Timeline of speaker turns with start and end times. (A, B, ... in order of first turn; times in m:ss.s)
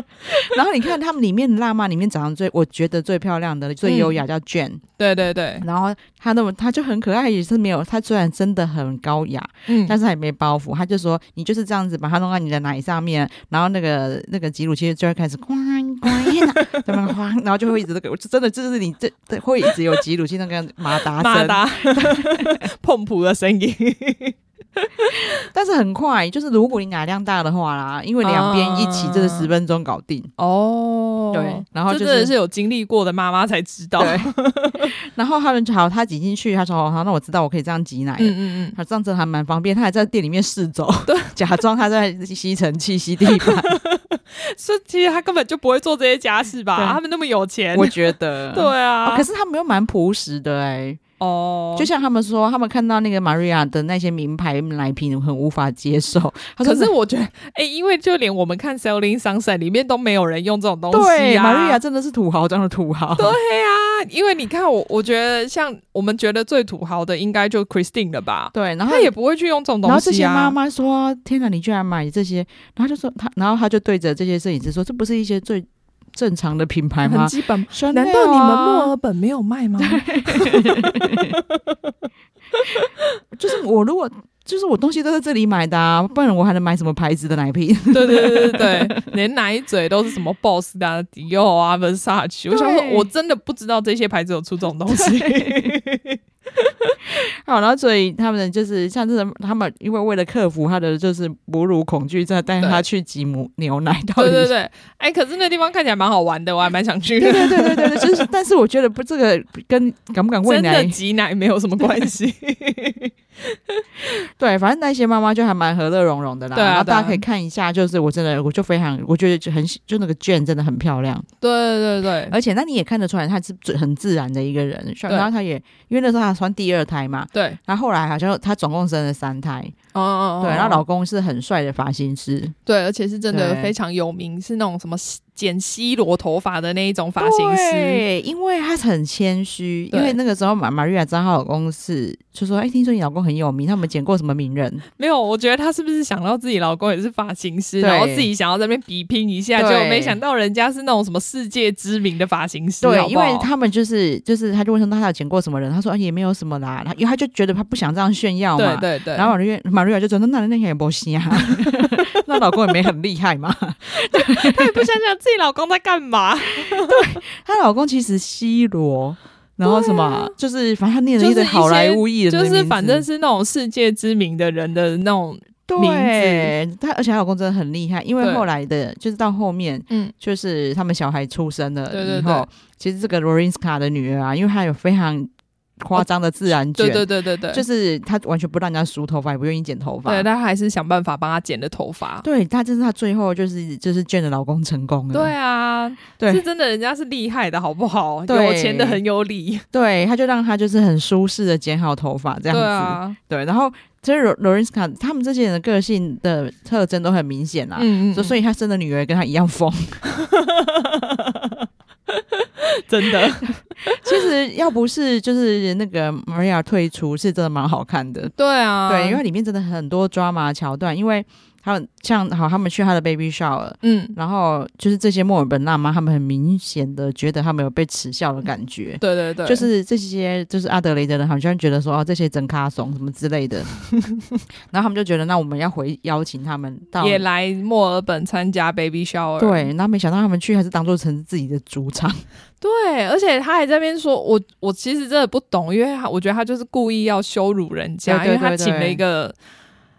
0:00.3-0:04.8 A
0:03.8-0:04.2 B
0:05.0-0:05.6 B
0:05.6-0:22.5 A
0:09.7-0:09.9 B
0:16.2-0:16.9 B
0:21.1-0:25.3 B
0:25.5-0:30.3 A
0:28.2-0:29.5 B
0:30.4-0:34.9 B
0:31.3-0:32.3 A
0:34.0-0:34.3 A
0:34.8-0:43.7 A
0:38.2-0:38.8 B
0:41.1-0:41.4 B
0:43.3-0:49.3 B
0:47.7-0:51.0 A
0:51.2-0:51.9 B
0:51.8-0:56.9 A
0:56.6-1:01.8 B
1:00.9-1:03.4 A
1:03.2-1:10.6 B
1:08.5-1:09.1 A
1:09.8-1:18.9 A
1:17.0-1:21.9 B
1:19.8-1:21.4 A
1:23.4-1:29.0 A
1:27.9-1:36.9 B
1:32.5-1:33.1 A
1:34.9-1:35.8 A
1:37.1-1:44.5 A
1:44.2-1:48.2 B
1:47.2-1:51.0 A
1:50.4-1:53.8 B
1:51.8-1:52.1 A
1:54.4-2:01.2 A
1:56.5-1:57.2 B
2:01.4-2:02.4 B
2:02.3-2:09.7 A
2:09.9-2:10.8 B
2:10.4-2:12.5 A
2:12.6-2:18.0 B
2:13.3-2:13.7 A
2:17.2-2:24.8 A
2:19.9-2:20.2 B
2:25.0-2:33.5 B
2:27.8-2:28.3 A
2:29.6-2:30.2 A
2:32.8-2:44.9 A
2:38.6-2:39.3 B
2:41.4-2:42.0 B
2:44.0-2:47.2 B
2:46.6-2:53.0 A
2:49.6-2:50.3 B
2:51.2-2:56.5 B
2:55.7-3:10.3 A
3:01.9-3:02.5 B
3:06.8-3:07.6 B
3:10.0-3:12.2 B
3:12.2-3:15.3 A
3:15.1-3:19.6 B
3:18.3-3:19.0 A
3:19.7-3:30.0 A
3:22.5-3:23.2 B
3:27.8-3:28.4 B
3:30.1-3:34.0 B
3:33.9-3:38.3 A
3:38.4-3:39.2 B
3:38.9-3:53.7 A
3:43.8-3:44.2 B
3:49.0-3:49.7 B
3:54.7-3:57.2 A
3:57.0-3:59.7 B
3:59.4-4:02.2 A
4:02.6-4:09.4 B
4:08.0-4:09.0 A